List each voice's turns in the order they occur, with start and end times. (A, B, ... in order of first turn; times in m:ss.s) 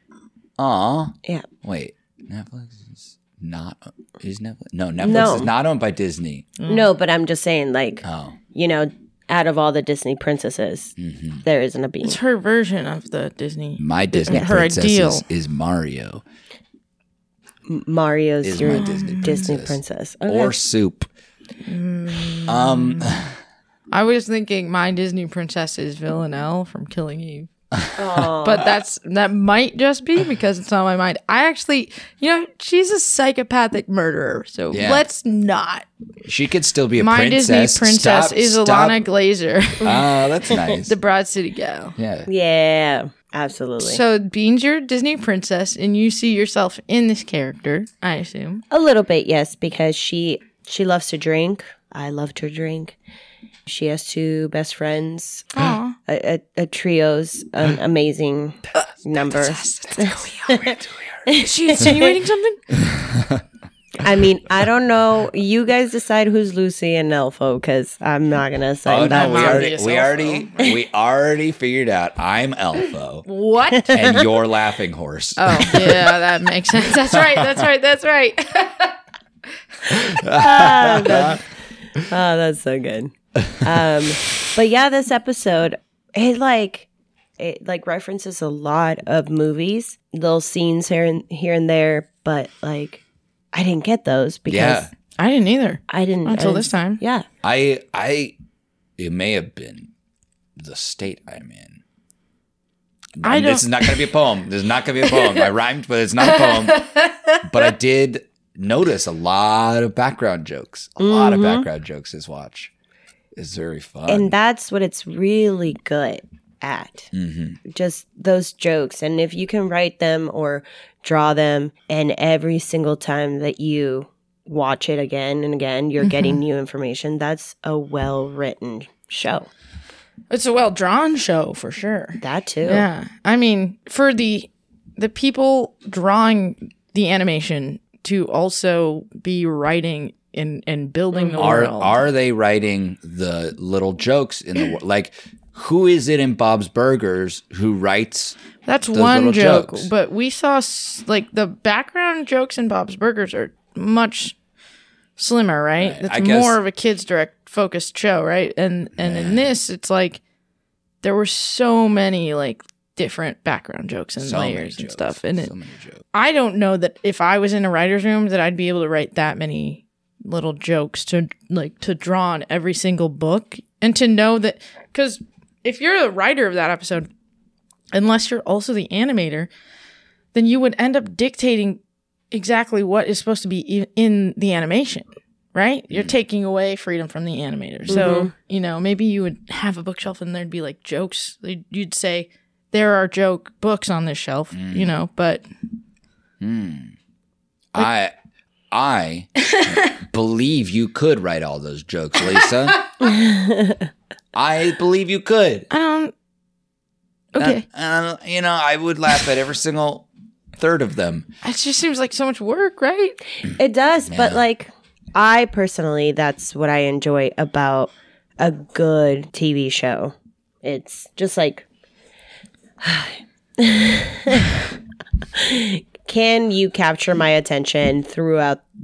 0:00.6-0:06.5 A
0:05.0-0:05.5 B
0:06.6-0:06.9 C
0:06.7-0:12.2 B
0:08.0-0:08.4 A
0:11.0-0:11.4 A
0:12.0-0:15.2 C
0:13.8-0:16.2 A
0:14.3-0:14.6 B
0:17.7-0:20.5 B
0:18.4-0:21.1 A
0:18.6-0:19.5 C
0:21.7-0:23.2 C
0:22.5-0:23.3 A
0:23.9-0:27.5 C
0:27.7-0:28.3 A
0:28.0-0:28.8 B
0:28.4-0:35.9 C
0:34.7-0:35.1 A
0:36.3-0:39.0 A
0:37.0-0:41.9 C
0:39.8-0:41.0 A
0:42.0-0:42.3 A
0:42.3-0:44.0 B
0:43.8-0:48.6 C
0:48.7-0:53.0 B
0:53.7-1:02.2 B
0:55.5-0:56.0 C
0:58.8-1:00.8 C
1:00.8-1:01.2 A
1:01.3-1:02.6 C
1:02.8-1:03.4 A
1:04.0-1:09.7 B
1:08.9-1:13.2 A
1:09.0-1:10.6 C
1:13.3-1:13.9 C
1:13.9-1:16.2 A
1:13.9-1:14.2 B
1:15.4-1:18.9 C
1:16.9-1:17.6 A
1:19.9-1:21.4 A
1:20.4-1:21.4 B
1:22.0-1:34.9 B
1:34.5-1:34.9 A
1:35.2-1:37.0 C
1:35.9-1:37.3 B
1:37.4-1:38.4 A
1:39.0-1:39.9 A
1:40.6-1:41.8 A
1:43.2-1:46.9 A
1:43.2-1:44.1 C
1:45.1-1:45.4 C
1:46.2-1:47.4 C
1:47.4-1:52.7 A
1:51.0-1:51.7 B
1:53.4-1:54.3 A
1:54.1-1:57.1 B
1:57.1-1:57.6 A
1:57.6-2:09.5 B
2:06.0-2:06.4 C
2:10.3-2:22.0 C
2:12.2-2:12.9 B
2:21.1-2:21.5 B
2:21.4-2:28.4 A
2:28.7-2:34.4 C
2:28.9-2:29.9 A
2:35.2-2:40.2 C
2:35.8-2:36.6 A
2:39.0-2:39.5 A
2:41.0-2:45.5 C
2:44.2-2:46.0 A
2:46.1-2:57.1 C
2:57.9-2:59.5 C
3:00.3-3:01.8 C
3:02.3-3:15.4 C
3:07.9-3:08.3 B
3:14.5-3:14.9 A
3:16.4-3:17.0 A
3:17.8-3:18.1 A
3:18.7-3:22.9 A
3:19.4-3:19.9 C
3:23.0-3:23.9 B
3:24.3-3:25.7 A
3:25.7-3:26.1 C
3:27.3-3:27.6 C
3:27.4-3:30.1 A
3:30.6-3:31.3 A
3:31.4-3:33.2 C
3:33.5-3:41.7 B
3:34.1-3:34.4 A
3:42.8-3:44.6 B
3:45.3-3:48.6 B